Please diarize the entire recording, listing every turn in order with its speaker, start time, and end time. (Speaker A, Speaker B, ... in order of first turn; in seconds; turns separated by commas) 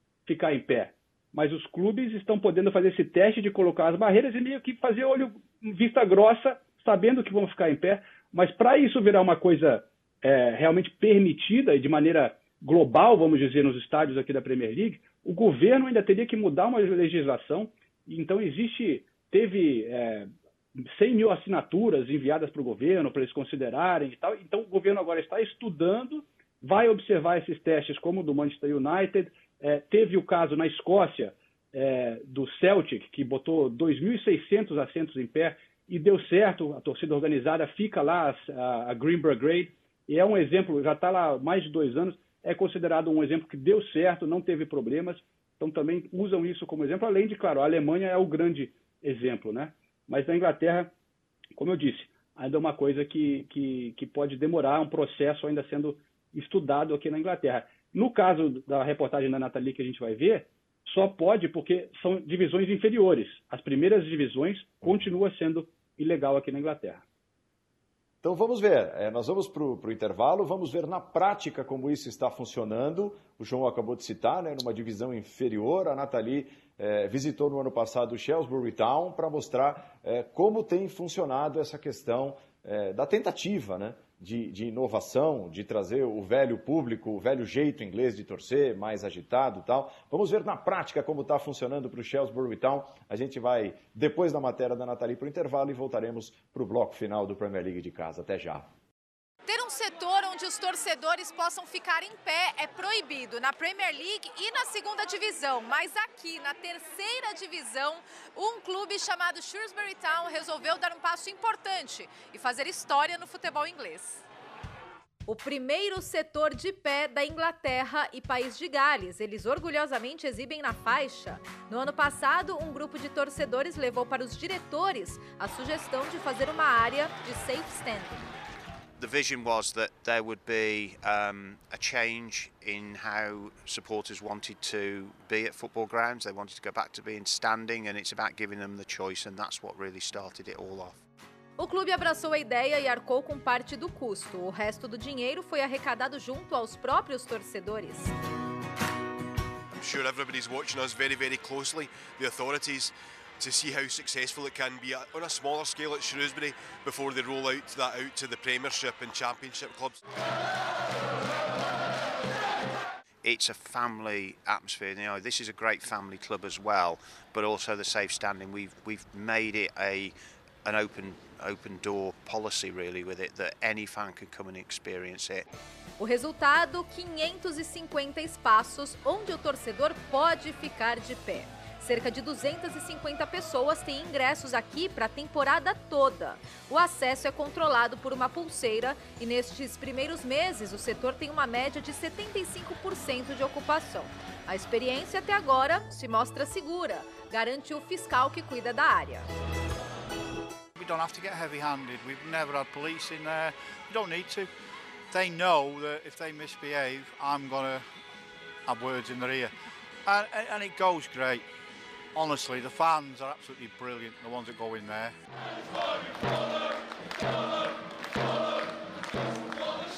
Speaker A: 0.2-50.9, Speaker A: 51.6-67.0, Speaker B: 68.2-98.7, Speaker C: 99.4-114.2, Speaker C: 115.3-128.3, Speaker D: 129.0-141.0, Speaker C: 141.6-148.1, Speaker E: 149.7-160.0, Speaker D: 163.2-175.4, Speaker C: 176.0-199.3, Speaker F: 200.7-204.5, Speaker F: 205.1-207.8, Speaker F: 208.7-209.5, Speaker F: 210.0-211.5, Speaker F: 212.1-215.1